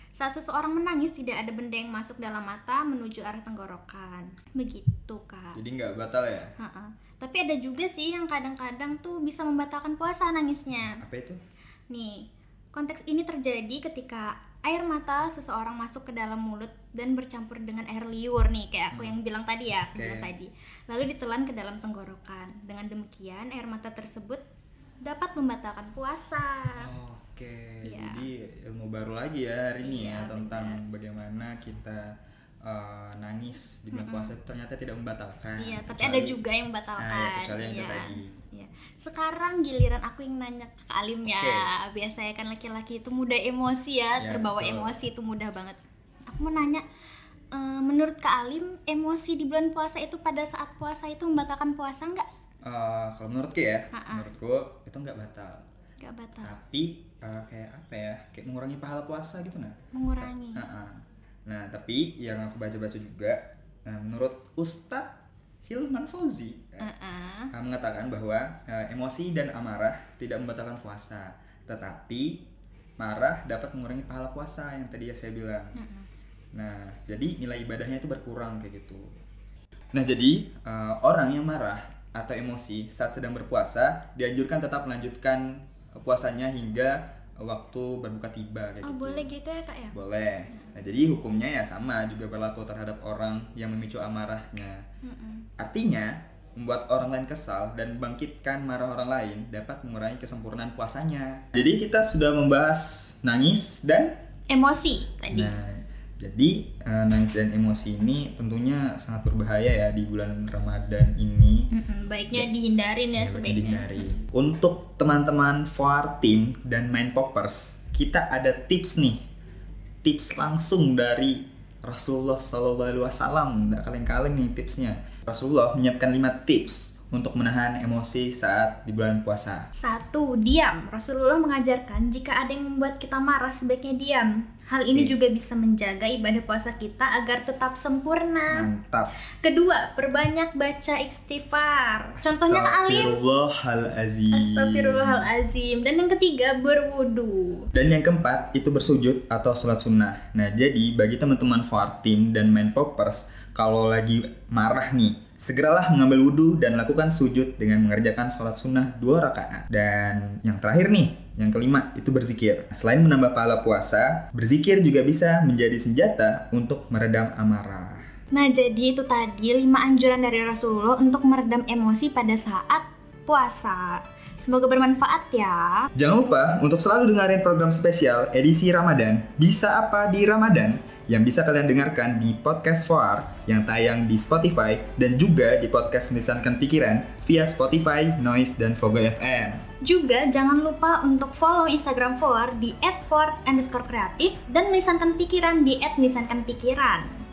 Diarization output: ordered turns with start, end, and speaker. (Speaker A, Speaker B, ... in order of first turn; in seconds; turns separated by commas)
Speaker A: 0.1-5.6, Speaker B: 5.5-6.5, Speaker A: 6.6-11.0, Speaker B: 11.0-11.4, Speaker A: 11.9-24.4, Speaker B: 18.9-19.2, Speaker B: 19.9-20.3, Speaker A: 25.0-26.9, Speaker B: 26.8-32.1, Speaker A: 27.8-28.2, Speaker A: 29.8-30.8, Speaker B: 32.6-36.4, Speaker A: 33.9-34.3, Speaker A: 35.6-46.8, Speaker B: 37.0-38.3, Speaker B: 41.3-41.6, Speaker B: 44.2-44.9, Speaker A: 47.5-52.2, Speaker B: 52.6-55.6, Speaker A: 53.9-54.3, Speaker A: 56.0-56.5, Speaker B: 56.4-66.9, Speaker A: 59.9-60.6, Speaker A: 66.8-67.5, Speaker B: 67.5-72.5, Speaker B: 73.0-75.7, Speaker A: 75.7-76.1, Speaker B: 76.5-79.1, Speaker B: 79.9-89.3, Speaker A: 88.8-90.0, Speaker B: 89.9-94.8, Speaker A: 95.0-95.5, Speaker B: 95.6-104.2, Speaker A: 104.5-105.5, Speaker B: 105.3-111.7, Speaker A: 111.7-114.2, Speaker B: 113.2-119.2, Speaker B: 120.0-129.7, Speaker A: 129.7-138.7, Speaker B: 138.5-139.1, Speaker A: 139.4-143.1, Speaker B: 142.2-145.3, Speaker A: 144.3-147.7, Speaker B: 147.7-168.1, Speaker A: 168.3-175.8, Speaker B: 175.9-189.6, Speaker A: 189.8-197.2